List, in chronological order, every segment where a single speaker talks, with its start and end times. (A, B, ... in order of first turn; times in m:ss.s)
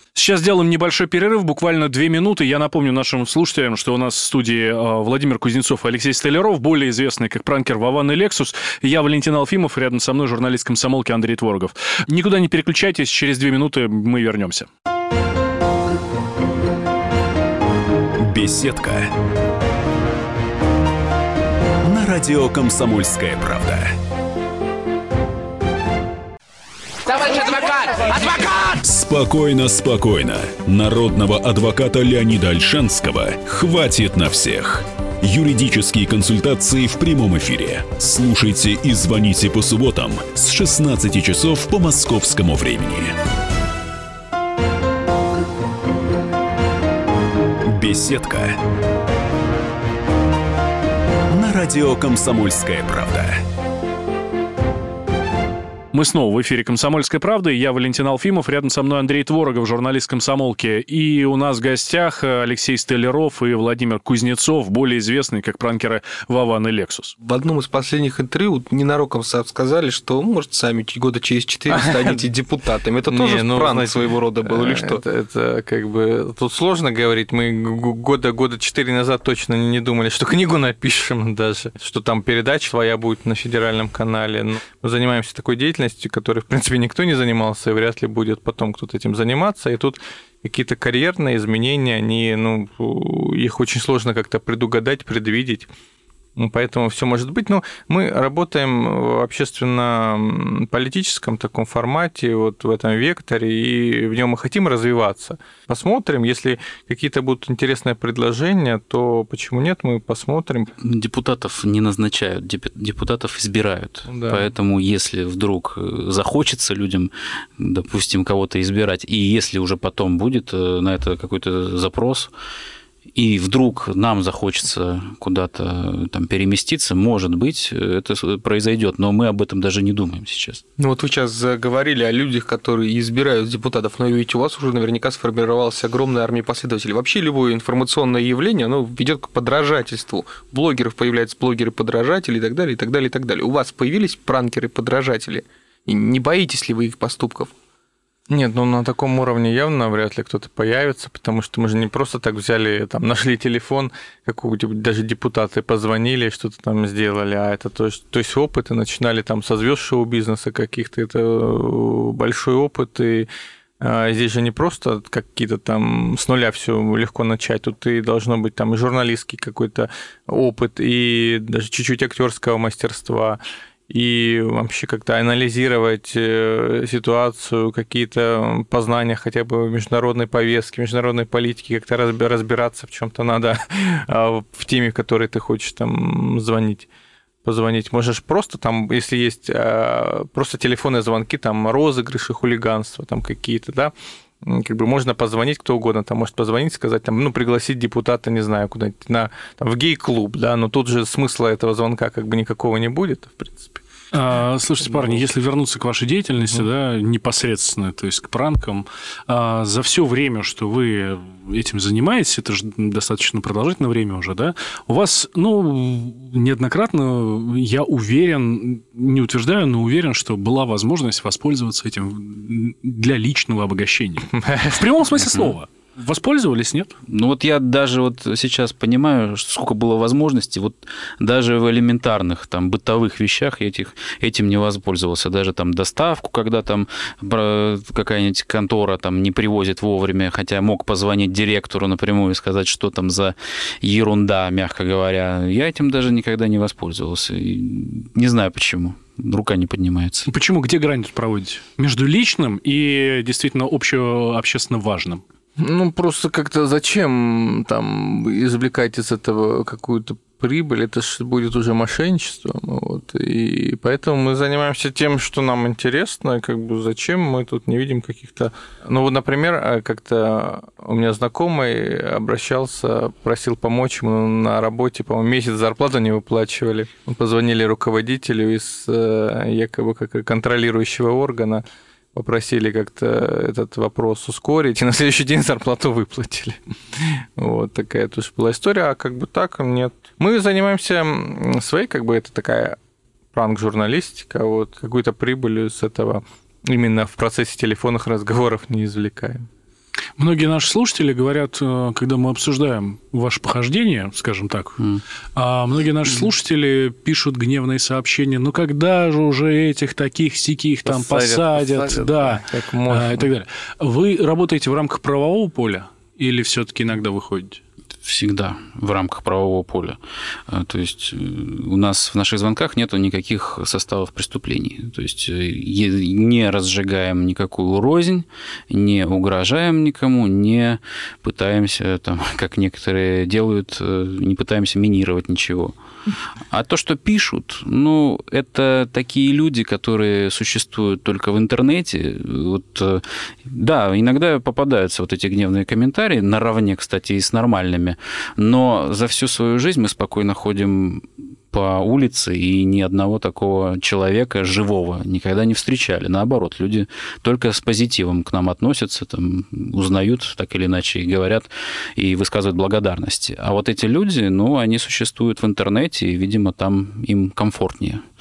0:00.1-0:14.7 A
0:18.2-0:19.1 B
0:21.8-0:24.0 B
0:28.6-0:43.1 B
0:47.6-0:48.6 B
0:51.3-0:53.4 B
0:55.9-1:07.1 A
1:07.2-1:15.0 C
1:13.1-1:35.7 D
1:36.4-1:50.7 D
1:50.8-2:02.3 E
1:54.1-1:54.5 D
2:03.1-2:10.6 E
2:10.8-2:27.5 C
2:28.3-2:43.3 D
2:43.8-3:06.9 D
3:07.4-3:23.8 D
3:24.1-3:46.9 A
3:24.8-3:25.2 D
3:44.4-3:44.7 D
3:45.3-3:45.6 E
3:47.1-4:10.3 E
4:10.3-4:15.2 A
4:15.6-4:41.6 D
4:42.1-4:52.8 D
4:53.3-4:59.5 D
5:00.2-5:04.8 A
5:05.4-5:17.6 A
5:10.8-5:13.3 D
5:18.0-5:35.7 E
5:36.5-6:08.0 E